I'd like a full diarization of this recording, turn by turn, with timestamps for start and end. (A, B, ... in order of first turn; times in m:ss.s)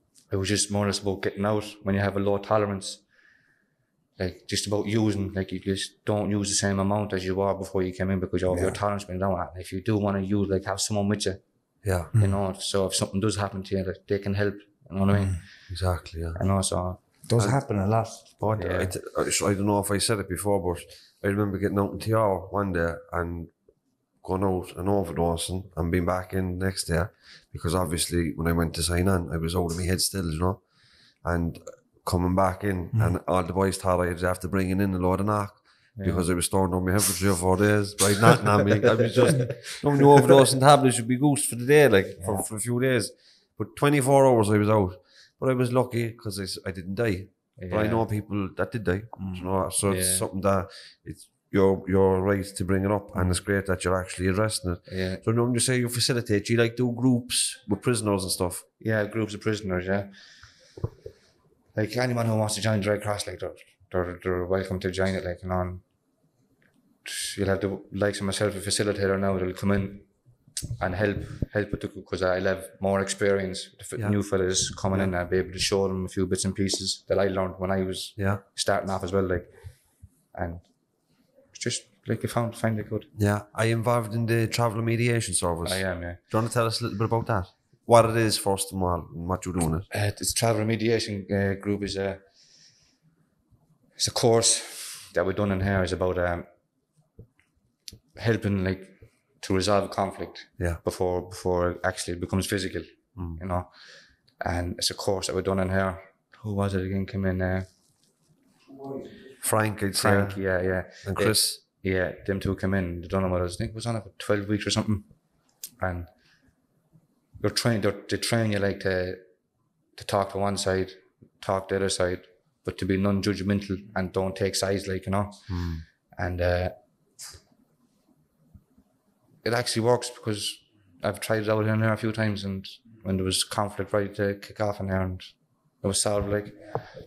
0:00.2-0:03.0 A
0:04.2-0:11.4 A
0:08.5-0:08.8 B
0:11.8-0:12.1 C
0:12.1-0:12.4 B
0:12.2-0:15.5 A
0:15.7-0:16.4 C
0:16.3-0:17.0 A
0:17.2-0:18.3 B
0:18.2-0:23.5 C
0:18.5-0:18.9 A
0:24.2-0:30.6 C
0:31.2-0:58.6 C
0:32.9-0:33.2 B
0:36.0-0:36.2 A
0:39.3-0:39.6 A
0:47.6-0:48.0 A
0:49.2-0:49.5 B
0:49.8-0:50.3 A
0:54.9-0:55.2 A
0:58.8-1:00.1 A
1:01.7-1:05.8 A
1:07.0-1:10.1 A
1:10.8-1:19.5 A
1:18.2-1:18.4 C
1:20.3-1:20.7 A
1:21.5-1:23.1 A
1:23.2-1:29.9 C
1:25.6-1:26.2 A
1:29.9-1:32.2 A
1:34.0-1:36.5 A
1:38.2-1:43.7 A
1:43.2-1:43.4 C
1:44.4-1:47.7 A
1:49.4-1:50.4 C
1:49.9-1:55.1 A
1:51.0-1:51.6 C
1:55.8-1:56.1 A
1:57.4-1:59.2 A
1:59.9-2:06.8 A
2:05.5-2:05.8 C
2:09.4-2:16.8 A